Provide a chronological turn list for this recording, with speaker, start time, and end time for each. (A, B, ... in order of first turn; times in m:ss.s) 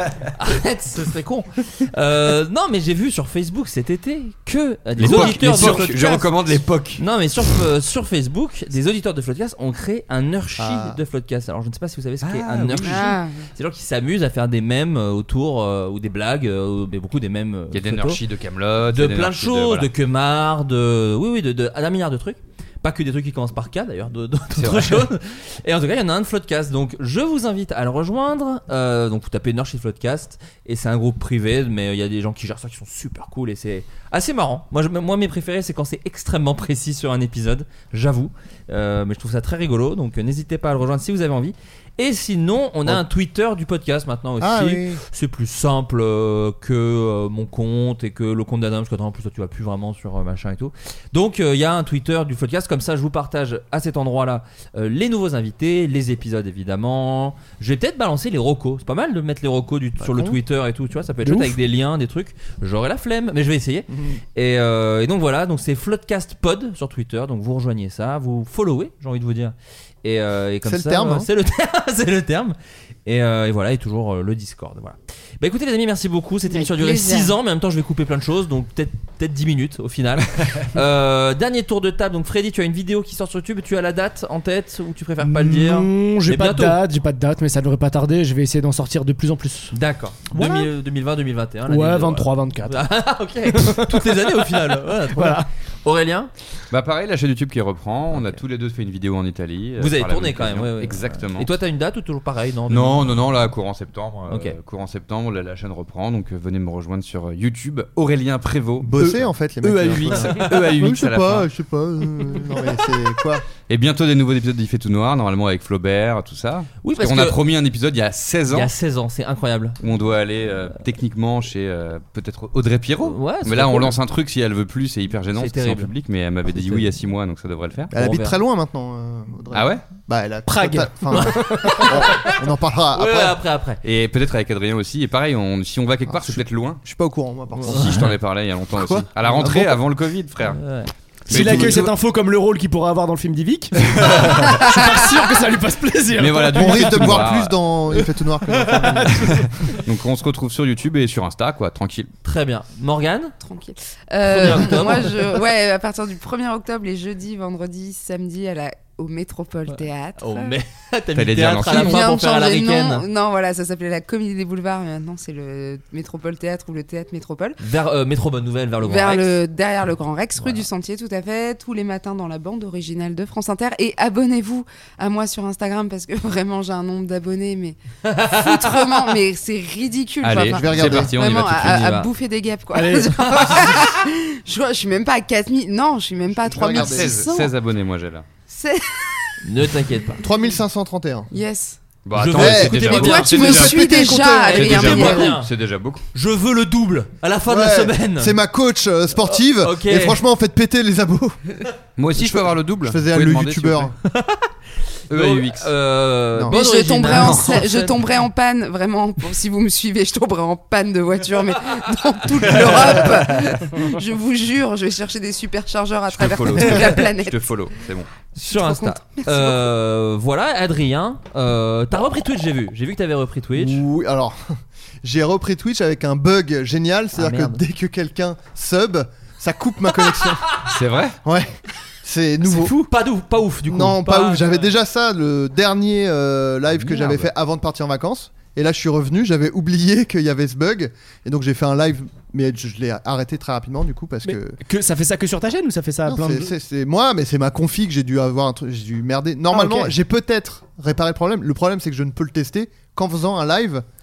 0:00.3-0:06.3 A
0:05.0-0:07.0 B
0:05.0-0:05.8 C
0:07.0-0:18.2 A
0:10.6-0:11.0 C
0:12.2-0:13.1 B
0:12.8-0:13.5 D
0:17.7-0:19.9 B
0:18.9-1:26.8 A
0:24.5-0:25.1 B
0:44.4-0:45.0 C
1:00.0-1:00.4 C
1:01.2-1:01.5 E
1:03.9-1:04.2 C
1:10.6-1:11.3 C
1:16.5-1:17.3 D
1:20.4-1:20.6 B
1:25.2-1:29.7 E
1:29.7-1:36.3 A
1:30.3-1:30.7 E
1:31.7-1:32.9 E
1:33.5-1:34.2 E
1:35.1-1:35.5 E
1:36.7-1:41.5 B
1:38.1-1:38.4 A
1:39.8-1:43.1 A
1:42.7-1:49.2 B
1:44.3-1:44.6 A
1:48.8-1:53.4 C
1:49.6-1:50.1 E
1:50.1-1:51.5 B
1:53.6-1:58.7 B
1:56.8-1:57.4 A
1:58.5-1:59.8 A
1:59.8-2:07.9 B
2:03.0-2:04.0 A
2:05.3-2:05.9 A
2:06.5-2:06.9 A
2:07.9-2:13.4 C
2:07.9-2:08.4 A
2:09.5-2:09.8 B
2:10.5-2:12.1 E
2:11.1-2:12.2 A
2:12.9-2:13.8 A
2:13.8-2:16.8 B
2:16.1-2:18.1 C
2:17.6-2:18.0 A
2:17.7-2:20.6 B
2:18.7-2:19.8 C
2:20.5-2:20.9 A
2:21.3-2:27.1 E
2:21.3-2:21.9 B
2:21.3-2:21.7 C
2:24.0-2:24.3 B
2:26.1-2:27.6 B
2:26.5-2:29.3 C
2:28.5-2:29.8 E
2:29.8-2:32.1 B
2:32.2-2:33.3 A
2:33.4-2:40.6 D
2:34.2-2:35.1 A
2:40.2-2:43.0 A
2:41.1-2:42.0 B
2:41.7-2:47.6 D
2:47.6-2:49.3 A
2:48.8-3:07.5 D
2:58.1-2:58.4 A
3:00.2-3:02.1 B
3:00.5-3:01.1 C
3:02.7-3:03.2 E
3:06.3-3:07.2 C
3:06.7-3:08.2 B
3:08.5-3:09.3 D
3:09.4-3:10.2 A
3:10.2-3:11.3 C
3:11.3-3:11.8 D
3:12.0-3:16.0 B
3:12.1-3:15.5 A
3:12.3-3:14.8 C
3:12.8-3:15.4 D
3:16.1-3:18.3 A
3:17.5-3:21.4 C
3:19.2-3:20.2 A
3:22.0-3:23.9 B
3:22.2-3:24.0 C
3:24.1-3:24.5 A
3:25.1-3:25.7 B
3:25.1-3:28.0 A
3:26.3-3:26.6 C
3:26.5-3:37.4 D
3:32.5-3:33.7 B
3:36.1-3:38.1 B
3:38.3-3:43.8 A
3:38.4-3:39.7 D
3:43.5-3:50.6 C
3:47.1-3:47.6 A
3:50.7-3:51.2 B
3:51.2-3:52.7 C
3:52.4-3:54.7 A
3:53.6-4:04.6 C
3:56.8-3:57.3 B
4:04.2-4:06.5 E
4:06.0-4:13.8 C
4:09.5-4:09.9 E